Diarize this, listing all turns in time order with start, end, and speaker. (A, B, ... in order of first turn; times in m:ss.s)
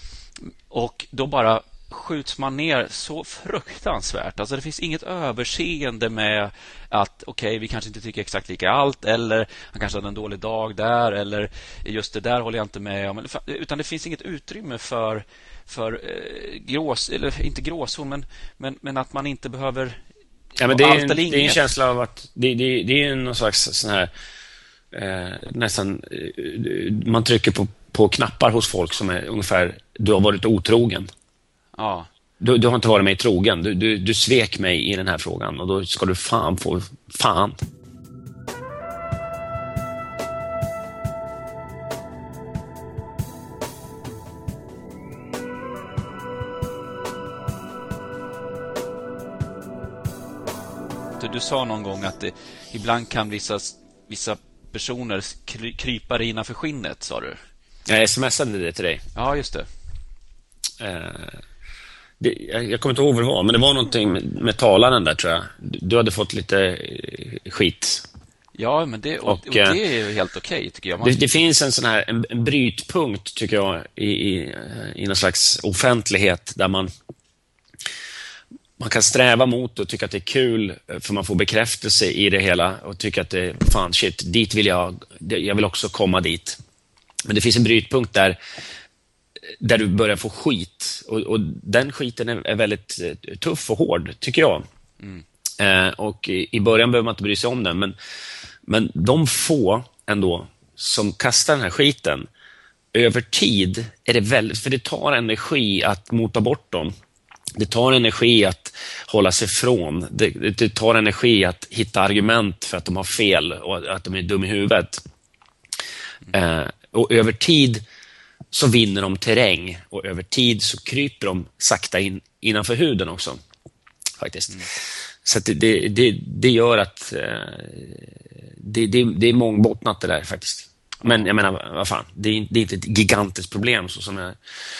0:00.7-0:20.0 A
0:20.6-0:24.1 B
0:20.6-0:21.6 A
0:24.9-0:31.1 B
0:31.8-0:32.1 A
0:32.4-0:37.6 B
0:51.2-0:57.4 A
0:57.9-0:59.0 B
0:59.1-0:59.7 A
1:00.8-1:01.4 B
1:02.2-1:08.0 B
1:08.5-1:11.2 A
1:09.2-1:09.8 B
1:11.0-1:16.9 B
1:18.8-1:26.6 B
1:27.2-1:28.4 B
1:29.6-1:34.6 B
1:35.6-1:37.9 B
1:38.6-1:42.3 B
1:42.9-1:46.9 B
1:47.6-1:55.0 B
1:56.3-1:57.8 B
1:58.5-2:03.4 B
2:04.2-2:14.4 B
2:11.0-2:11.3 A